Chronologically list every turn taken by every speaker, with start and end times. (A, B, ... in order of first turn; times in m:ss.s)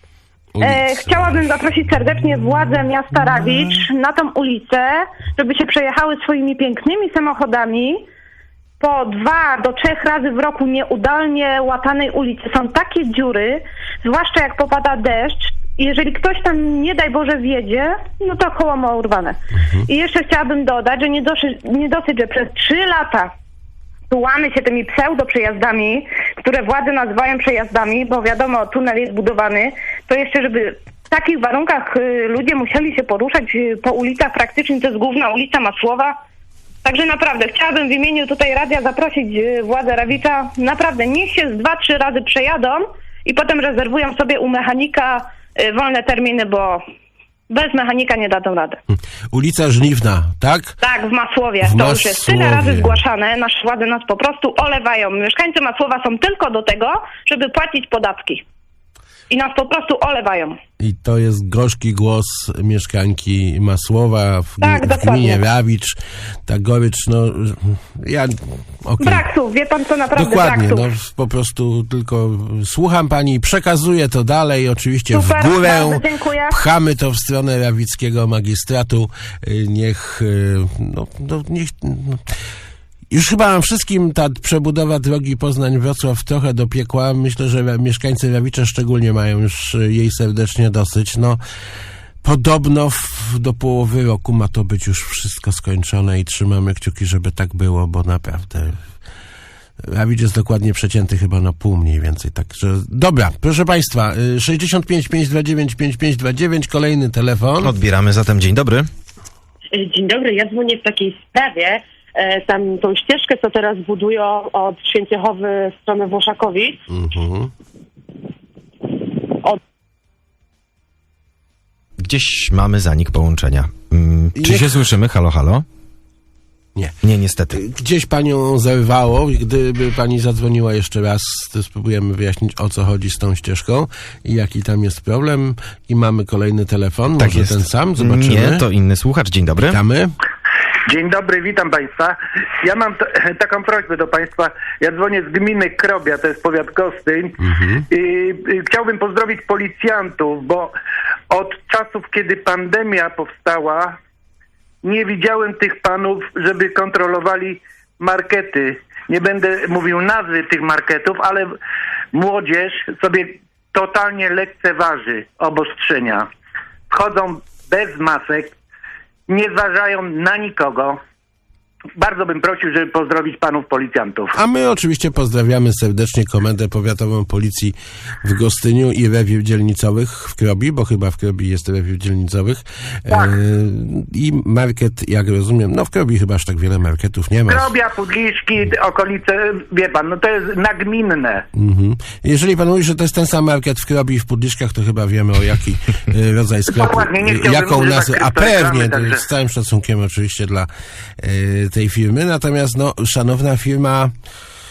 0:00.6-0:01.5 A
0:00.6-0:08.0 B
0:08.8-0:23.3 B
0:19.6-0:19.9 A
0:24.1-0:36.2 B
0:36.8-0:46.8 B
0:47.5-0:48.8 B
0:49.3-0:50.8 A
0:50.8-0:58.4 B
0:51.6-0:53.0 A
0:59.3-1:00.6 B
1:00.8-1:09.3 A
1:04.6-1:05.4 B
1:09.0-1:10.9 B
1:10.1-1:22.3 A
1:15.1-1:16.6 B
1:23.1-1:31.4 A
1:32.2-1:38.8 A
1:39.8-1:47.7 A
1:47.6-1:48.9 C
1:49.7-1:56.8 D
1:56.9-1:57.5 A
2:02.0-2:05.6 C
2:04.4-2:04.8 A
2:07.0-2:07.6 C
2:07.5-2:18.6 A
2:17.2-2:19.8 C
2:19.7-2:20.2 A
2:20.9-2:27.4 E
2:27.4-2:27.9 A
2:27.9-2:30.8 E
2:31.3-2:34.0 E
2:34.8-2:41.6 E
2:42.1-2:46.3 E
2:46.9-2:48.6 E
2:49.3-2:51.0 E
2:52.0-2:54.4 E
2:54.3-3:07.7 A
3:07.5-3:11.4 E
3:11.5-3:24.2 A
3:16.7-3:19.2 E